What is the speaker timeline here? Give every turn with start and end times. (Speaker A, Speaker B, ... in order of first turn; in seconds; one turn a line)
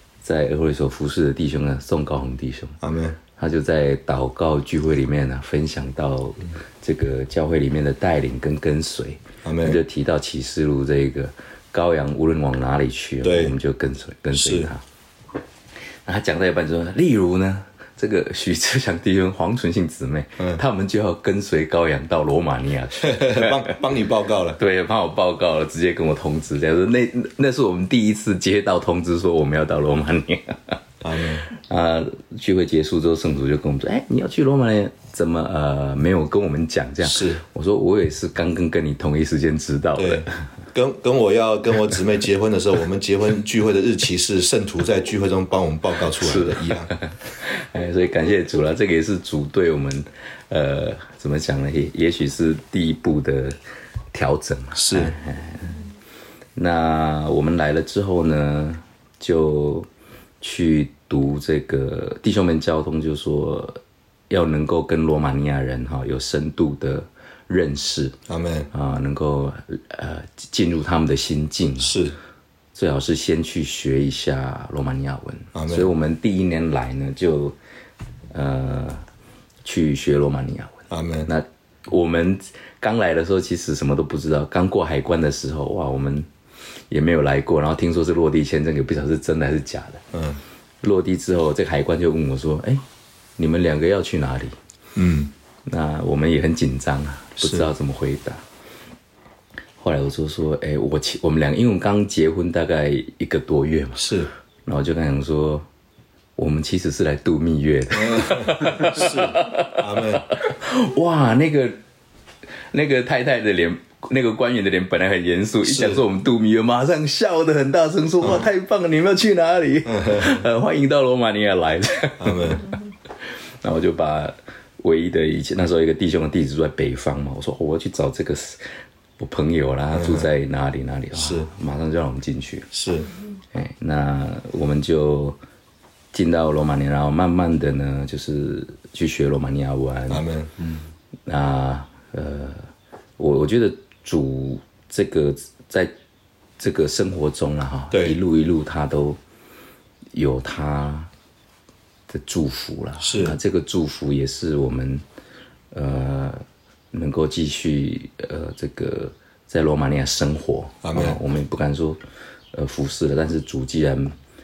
Speaker A: 0.2-2.8
Speaker B: 2.8-3.2
Speaker A: 3.4-14.8
Speaker B: 9.4-9.8
Speaker B: 13.2-13.6
Speaker B: 14.3-14.7
Speaker A: 16.0-23.8
Speaker B: 23.0-24.6
Speaker A: 24.6-30.8
Speaker B: 31.0-31.5
Speaker A: 31.5-40.5
Speaker B: 37.0-37.4
Speaker B: 40.0-46.9
Speaker A: 46.2-53.6
Speaker A: 54.1-55.8
Speaker B: 54.8-55.2
Speaker A: 56.5-59.9
Speaker A: 60.4-68.2
Speaker B: 68.3-68.7
Speaker A: 68.7-72.0
Speaker B: 71.8-72.2
Speaker A: 72.7-77.5
Speaker B: 75.5-75.9
Speaker A: 78.3-79.0
Speaker A: 79.6-86.3
Speaker B: 80.9-81.3
Speaker A: 86.9-90.0
Speaker B: 90.1-90.4
Speaker A: 90.8-92.8
Speaker A: 93.4-94.5
Speaker B: 94.9-95.3
Speaker A: 95.7-98.4
Speaker B: 97.4-97.7
Speaker A: 99.8-105.7
Speaker B: 104.0-104.3
Speaker A: 106.3-111.8
Speaker B: 107.9-110.3
Speaker A: 112.7-122.8
Speaker B: 115.6-116.0
Speaker B: 118.2-118.5
Speaker B: 119.8-120.4
Speaker B: 122.2-122.7
Speaker A: 123.6-128.6
Speaker A: 129.2-132.7
Speaker B: 129.9-130.3
Speaker B: 131.1-131.5
Speaker B: 132.7-133.1
Speaker A: 133.5-135.4
Speaker A: 136.1-140.2
Speaker B: 140.1-140.5
Speaker A: 141.3-142.7
Speaker A: 143.2-145.9
Speaker A: 146.6-149.2
Speaker B: 147.9-148.2
Speaker A: 150.1-151.1
Speaker A: 152.1-155.0
Speaker B: 153.0-153.4
Speaker A: 155.7-162.0
Speaker B: 160.8-161.2
Speaker A: 162.5-164.1